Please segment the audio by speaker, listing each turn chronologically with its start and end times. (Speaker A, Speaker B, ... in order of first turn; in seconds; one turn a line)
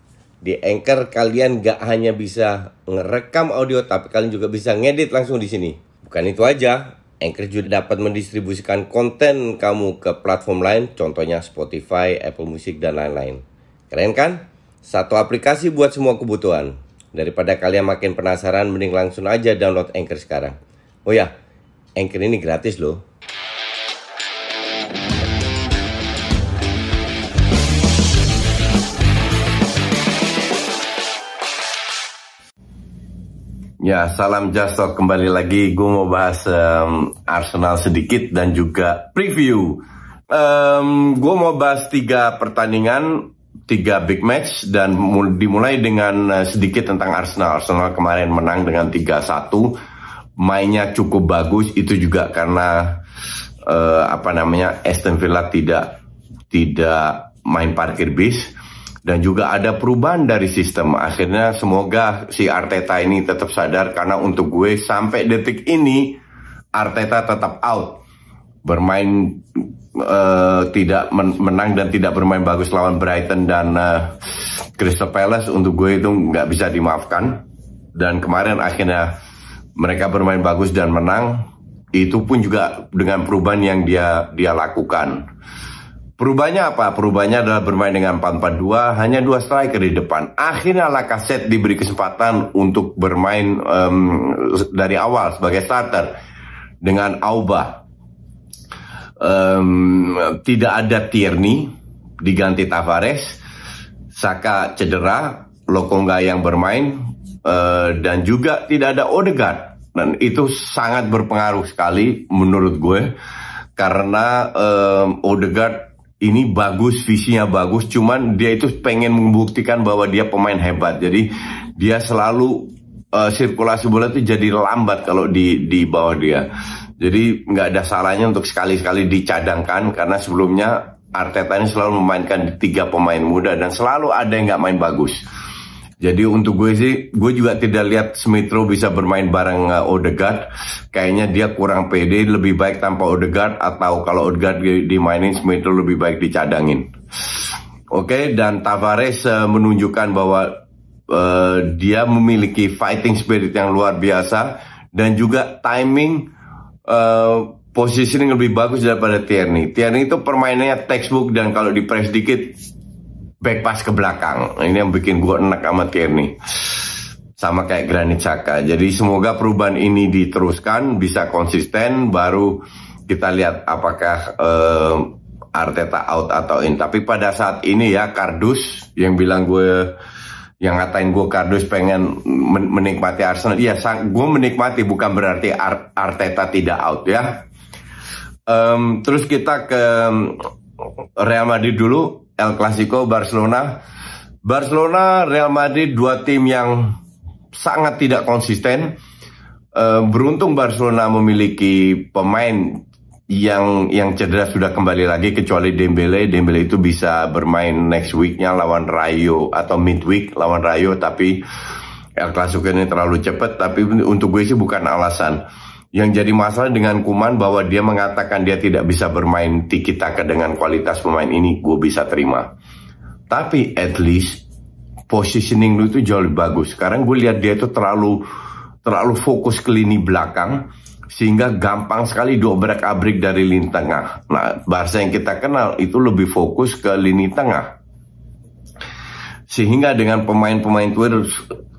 Speaker A: 0.4-21.3
Speaker A: 22.0-23.0
Speaker A: 33.8-49.7
Speaker A: 50.4-53.0
Speaker A: 53.6-55.9
Speaker A: 56.5-58.5
Speaker A: 59.0-66.2
Speaker A: 66.8-68.0
Speaker A: 68.6-74.1
Speaker A: 74.8-77.4
Speaker A: 77.9-79.1
Speaker A: 79.8-85.3
Speaker A: 86.2-96.1
Speaker A: 96.8-97.8
Speaker A: 99.2-101.7
Speaker A: 102.2-103.4
Speaker A: 104.1-113.1
Speaker A: 113.8-126.5
Speaker A: 127.0-135.2
Speaker A: 136.0-146.9
Speaker A: 147.9-156.3
Speaker A: 156.8-162.6
Speaker A: 163.4-166.3
Speaker A: 167.4-179.9
Speaker A: 180.6-187.4
Speaker A: 188.5-190.4
Speaker A: 191.2-193.7
Speaker A: 194.4-196.9
Speaker A: 197.5-198.9
Speaker A: 199.7-211.4
Speaker A: 212.2-215.4
Speaker A: 215.9-222.5
Speaker A: 223.3-224.4
Speaker A: 225.1-228.2
Speaker A: 228.8-237.7
Speaker A: 239.5-241.5